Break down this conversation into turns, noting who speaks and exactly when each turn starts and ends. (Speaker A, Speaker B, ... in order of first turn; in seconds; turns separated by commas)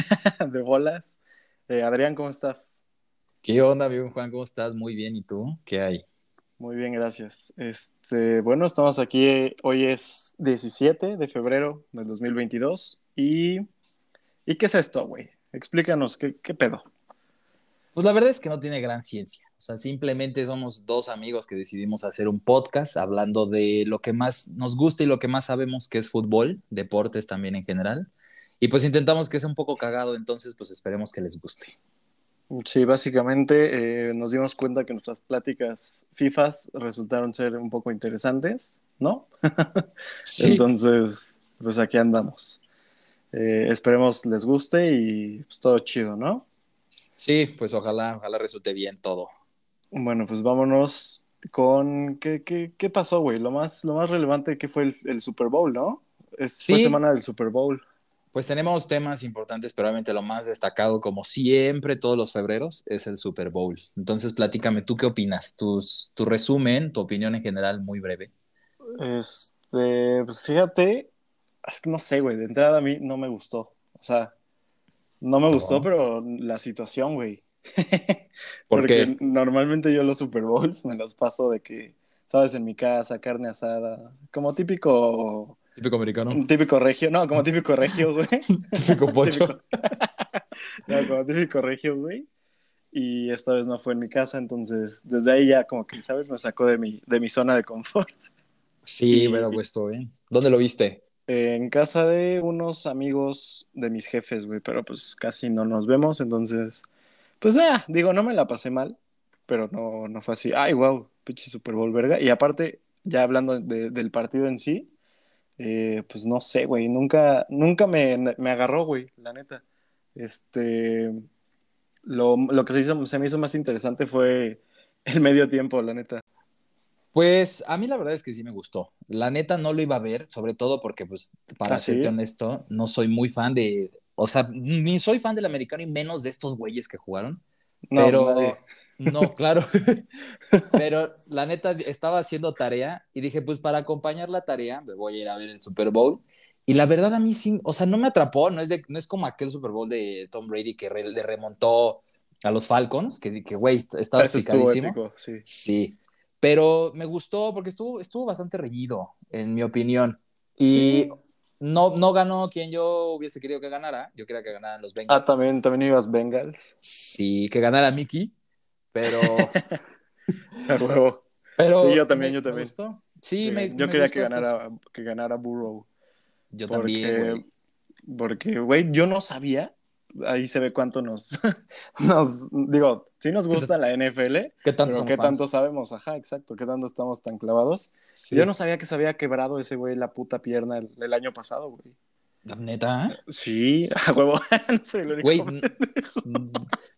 Speaker A: 0.4-1.1, Speaker A: 1.7-2.8, Speaker B: 3.4-6.0, Speaker A: 6.6-13.6, Speaker A: 14.4-16.9, Speaker B: 17.9-31.7, Speaker A: 32.5-39.9, Speaker B: 40.2-40.6, Speaker A: 40.4-42.6, Speaker A: 43.3-46.5, Speaker B: 47.2-49.3, Speaker A: 49.9-57.8, Speaker B: 56.6-57.0, Speaker B: 58.3-68.3, Speaker A: 69.0-71.1, Speaker A: 71.7-74.3, Speaker A: 75.2-85.6, Speaker B: 75.5-75.9, Speaker B: 78.7-79.1, Speaker B: 85.8-86.4, Speaker A: 86.3-90.1, Speaker B: 88.6-89.5, Speaker A: 90.8-92.3, Speaker A: 92.9-98.3, Speaker B: 98.8-101.0, Speaker A: 99.1-99.6, Speaker A: 101.3-106.8, Speaker A: 107.4-114.9, Speaker A: 115.6-119.6, Speaker A: 120.1-121.2, Speaker A: 122.0-126.2, Speaker B: 127.1-137.4, Speaker A: 131.7-132.1, Speaker A: 137.9-138.6, Speaker B: 137.9-140.0, Speaker A: 140.5-140.8, Speaker B: 140.7-165.3, Speaker A: 154.2-155.4, Speaker A: 160.6-161.1, Speaker A: 165.1-166.7, Speaker B: 166.8-168.3, Speaker B: 168.9-169.6, Speaker A: 169.1-169.8, Speaker A: 170.6-171.2, Speaker B: 171.6-174.6, Speaker A: 171.8-172.7, Speaker A: 173.4-175.9, Speaker B: 176.5-177.4, Speaker A: 176.7-177.4, Speaker A: 178.0-181.4, Speaker A: 182.0-191.9, Speaker B: 184.6-185.5, Speaker B: 188.2-188.5, Speaker B: 192.4-193.2, Speaker A: 193.2-196.4, Speaker B: 195.2-195.7, Speaker B: 196.2-196.7